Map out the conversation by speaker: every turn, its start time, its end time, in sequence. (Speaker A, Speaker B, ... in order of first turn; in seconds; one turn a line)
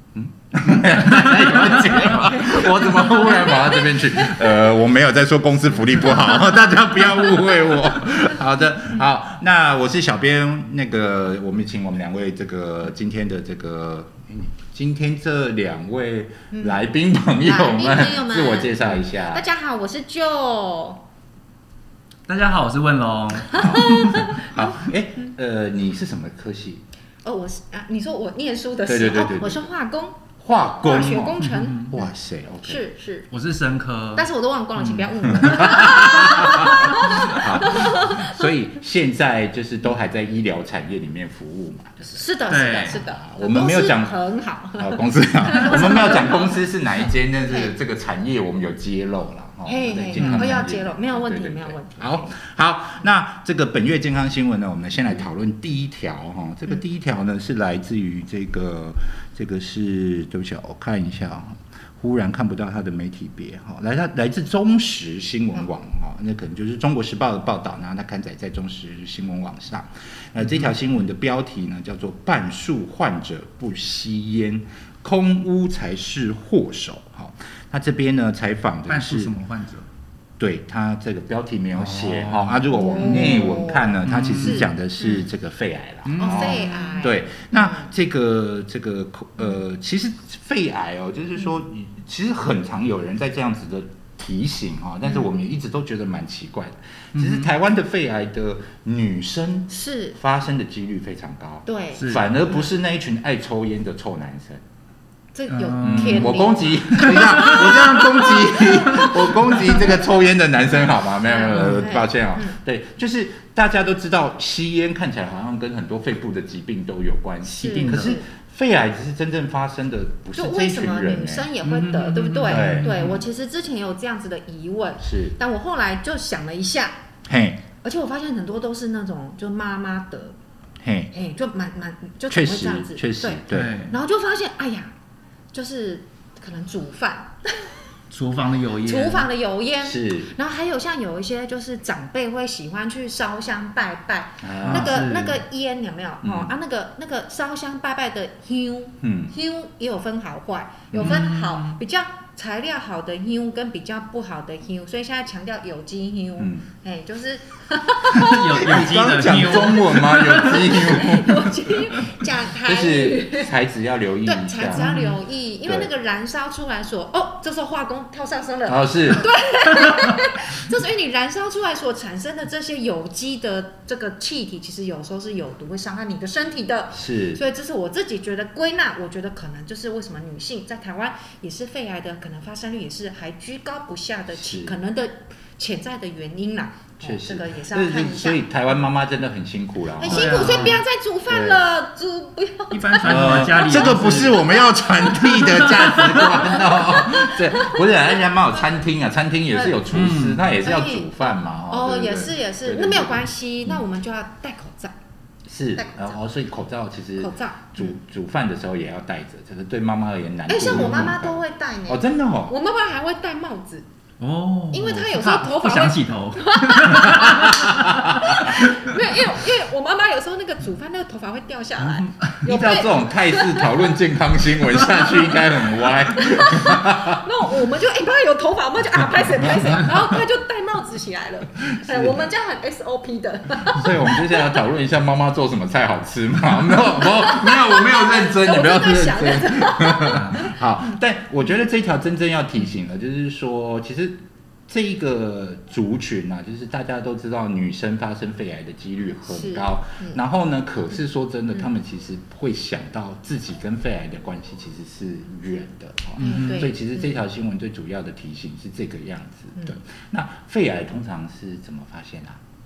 Speaker A: 0.1-19.5
Speaker B: 2.5-4.6
Speaker B: 16.5-16.8
Speaker B: 17.4-21.0
Speaker C: 22.3-24.4
Speaker B: 23.5-24.5
Speaker A: 24.3-26.8
Speaker B: 27.2-32.1
Speaker A: 28.9-29.6
Speaker A: 30.4-32.8
Speaker C: 31.4-31.9
Speaker B: 32.6-33.3
Speaker C: 33.3-34.3
Speaker B: 34.2-38.4
Speaker C: 34.8-37.3
Speaker A: 35.4-44.2
Speaker B: 42.1-46.6
Speaker C: 42.5-43.0
Speaker A: 44.8-79.3
Speaker B: 49.7-52.3
Speaker C: 50.2-50.5
Speaker C: 78.9-79.9
Speaker A: 80.4-104.6
Speaker C: 81.8-83.5
Speaker B: 82.8-83.9
Speaker C: 84.0-84.7
Speaker B: 84.4-85.2
Speaker C: 86.1-86.9
Speaker B: 86.2-87.9
Speaker C: 97.1-97.5
Speaker B: 99.7-100.2
Speaker B: 101.7-102.0
Speaker C: 101.9-102.3
Speaker B: 105.3-110.1
Speaker C: 105.5-108.0
Speaker A: 105.8-121.5
Speaker C: 109.0-109.6
Speaker B: 111.2-112.6
Speaker B: 117.4-118.2
Speaker C: 117.6-118.2
Speaker B: 120.3-127.0
Speaker C: 121.6-123.2
Speaker A: 122.5-123.2
Speaker A: 125.0-125.3
Speaker A: 127.3-127.6
Speaker B: 127.8-130.3
Speaker A: 130.8-131.1
Speaker B: 131.1-134.9
Speaker A: 132.3-133.8
Speaker C: 133.5-134.0
Speaker B: 135.5-137.8
Speaker C: 138.1-139.3
Speaker B: 138.8-158.8
Speaker A: 139.8-140.3
Speaker A: 144.4-145.0
Speaker C: 144.7-145.4
Speaker A: 146.2-146.5
Speaker A: 149.0-149.3
Speaker A: 150.9-151.3
Speaker C: 151.0-151.8
Speaker A: 156.4-156.6
Speaker C: 158.1-161.0
Speaker A: 158.6-161.6
Speaker B: 159.9-163.5
Speaker A: 162.6-164.9
Speaker B: 164.2-188.4
Speaker C: 164.7-165.1
Speaker A: 168.7-169.3
Speaker A: 176.9-177.4
Speaker A: 184.3-184.8
Speaker A: 187.0-191.6
Speaker B: 190.0-197.8
Speaker C: 190.1-190.8
Speaker C: 192.7-194.4
Speaker A: 193.0-203.8
Speaker C: 195.4-196.3
Speaker C: 199.9-200.5
Speaker B: 200.6-201.1
Speaker B: 201.7-204.9
Speaker A: 205.5-212.6
Speaker B: 205.8-206.1
Speaker B: 207.2-207.9
Speaker B: 210.5-213.9
Speaker C: 210.7-211.1
Speaker C: 214.2-219.0
Speaker B: 214.7-223.9
Speaker C: 221.8-222.3
Speaker A: 222.4-227.2
Speaker B: 224.7-234.6
Speaker A: 229.2-229.9
Speaker A: 231.7-232.3
Speaker A: 233.6-262.4
Speaker B: 236.9-240.6
Speaker C: 240.1-240.4
Speaker B: 249.3-250.2
Speaker C: 256.2-256.7
Speaker B: 256.2-257.1